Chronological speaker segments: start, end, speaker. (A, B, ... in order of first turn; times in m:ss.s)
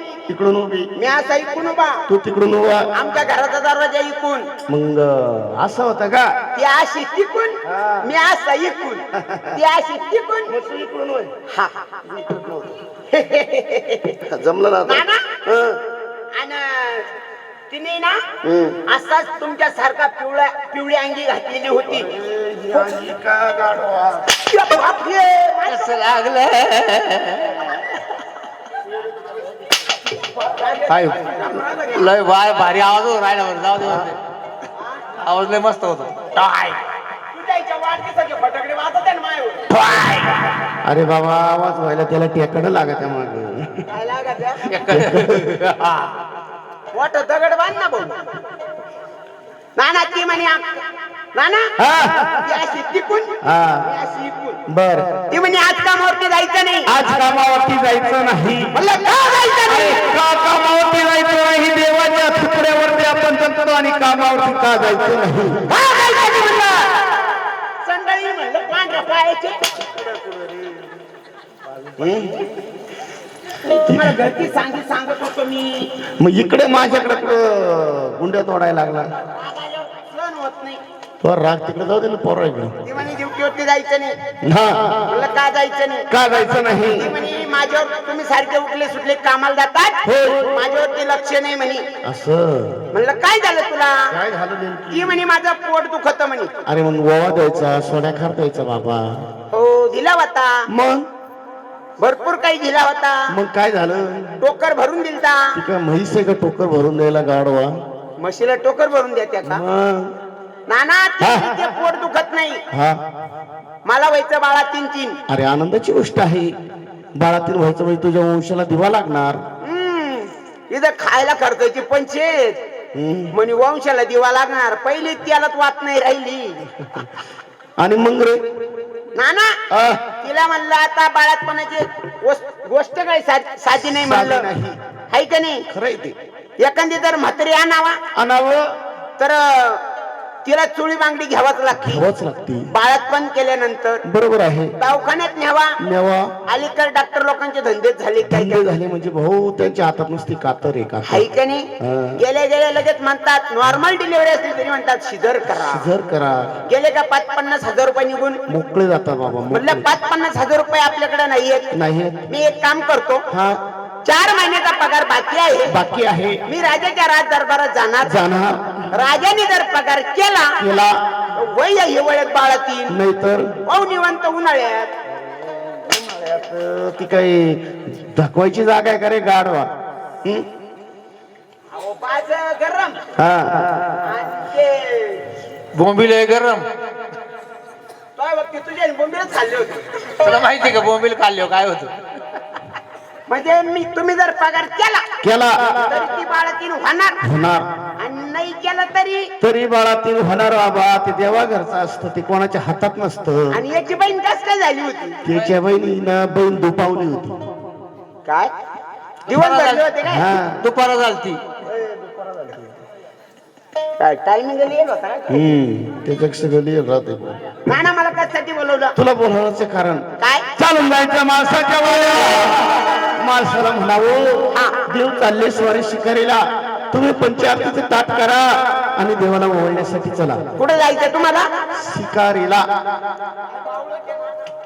0:00.3-0:00.9 A
0:01.0-0:02.0 B
0:02.1-0:02.9 A
0:02.9-0:04.5 B
0:04.7-0:06.3 A
0:06.5-0:10.5 B
0:07.7-0:08.1 A
0:09.2-0:09.6 A
0:10.5-0:11.3 A
0:11.5-0:12.2 B
0:12.2-0:12.7 A
0:13.1-0:14.1 B
0:14.1-0:15.8 A
0:14.8-0:15.4 B
0:16.3-0:17.1 B
0:17.7-0:22.1 B
0:18.4-0:18.7 A
0:21.9-0:24.4 A
0:24.4-0:25.9 B
0:25.7-0:28.0 C
0:30.3-0:32.1 B
0:30.9-0:34.2 C
0:34.8-0:35.0 B
0:35.2-0:36.2 C
0:36.3-0:36.8 B
0:37.3-0:39.8 B
0:40.8-0:43.8 A
0:43.9-0:44.7 B
0:44.7-0:46.1 C
0:44.9-0:45.4 A
0:46.9-0:48.2 B
0:49.8-0:50.8 B
0:51.3-0:51.7 B
0:51.8-0:52.4 A
0:52.4-0:54.6 B
0:53.4-0:53.8 A
0:54.7-0:55.2 A
0:55.3-0:56.9 B
0:56.9-0:58.7 A
0:58.7-1:00.1 B
0:59.7-1:05.6 A
1:05.7-1:07.2 B
1:07.8-1:09.6 B
1:12.0-1:12.4 A
1:13.6-1:15.9 B
1:13.9-1:14.2 A
1:16.1-1:19.1 A
1:19.2-1:20.8 B
1:21.2-1:22.8 A
1:22.8-1:24.2 B
1:24.4-1:25.2 A
1:25.0-1:26.1 B
1:26.1-1:27.1 A
1:26.9-1:31.8 B
1:30.0-1:30.5 A
1:32.0-1:32.8 A
1:32.9-1:34.1 B
1:34.1-1:35.2 A
1:34.9-1:36.5 B
1:36.6-1:39.2 A
1:39.5-1:40.7 B
1:40.7-1:41.1 A
1:42.0-1:43.3 B
1:43.3-1:44.4 A
1:44.4-1:45.6 B
1:45.5-1:47.8 A
1:48.2-1:49.6 B
1:49.4-1:50.1 A
1:50.7-1:52.6 B
1:51.2-1:51.7 A
1:52.7-1:53.0 A
1:53.8-1:55.2 B
1:55.3-1:56.6 A
1:57.1-1:59.4 A
1:59.6-2:02.6 B
2:02.9-2:03.3 A
2:03.3-2:07.1 B
2:07.8-2:08.4 A
2:09.2-2:09.6 B
2:09.7-2:10.0 A
2:10.2-2:14.5 B
2:13.8-2:14.8 A
2:15.1-2:15.6 B
2:15.7-2:16.2 A
2:16.6-2:18.0 B
2:18.1-2:18.7 A
2:19.2-2:19.8 B
2:20.4-2:22.1 B
2:21.7-2:22.7 A
2:22.7-2:24.0 B
2:24.0-2:24.8 A
2:24.8-2:25.8 B
2:25.8-2:26.3 A
2:26.5-2:28.6 B
2:28.3-2:31.3 A
2:31.0-2:35.9 B
2:31.8-2:32.2 A
2:35.5-2:36.6 A
2:36.6-2:38.4 B
2:38.5-2:39.9 A
2:39.5-2:41.7 B
2:41.7-2:42.2 A
2:42.3-2:43.2 B
2:43.3-2:43.6 A
2:44.0-2:45.8 B
2:45.7-2:46.4 A
2:46.5-2:48.2 B
2:48.0-2:48.8 A
2:48.9-2:50.6 B
2:50.6-2:51.0 A
2:51.3-2:53.0 B
2:52.9-2:53.6 A
2:53.6-2:54.9 B
2:55.8-2:59.7 A
3:01.7-3:03.0 B
3:03.2-3:03.9 A
3:04.0-3:05.2 B
3:05.7-3:06.6 C
3:08.2-3:10.1 B
3:10.2-3:11.9 C
3:13.3-3:15.0 B
3:15.2-3:15.8 A
3:15.8-3:17.2 B
3:17.2-3:17.7 A
3:18.0-3:19.3 B
3:19.4-3:23.6 A
3:23.5-3:25.2 B
3:25.2-3:27.4 A
3:28.2-3:28.5 B
3:29.3-3:29.8 C
3:29.3-3:30.3 B
3:30.0-3:30.6 A
3:30.6-3:31.4 C
3:31.8-3:32.6 A
3:34.0-3:35.5 B
3:35.3-3:37.6 A
3:37.7-3:38.9 B
3:38.9-3:40.0 A
3:40.2-3:40.4 B
3:40.6-3:50.5 A
3:50.6-3:51.5 B
3:51.7-3:52.7 A
3:53.5-3:54.5 B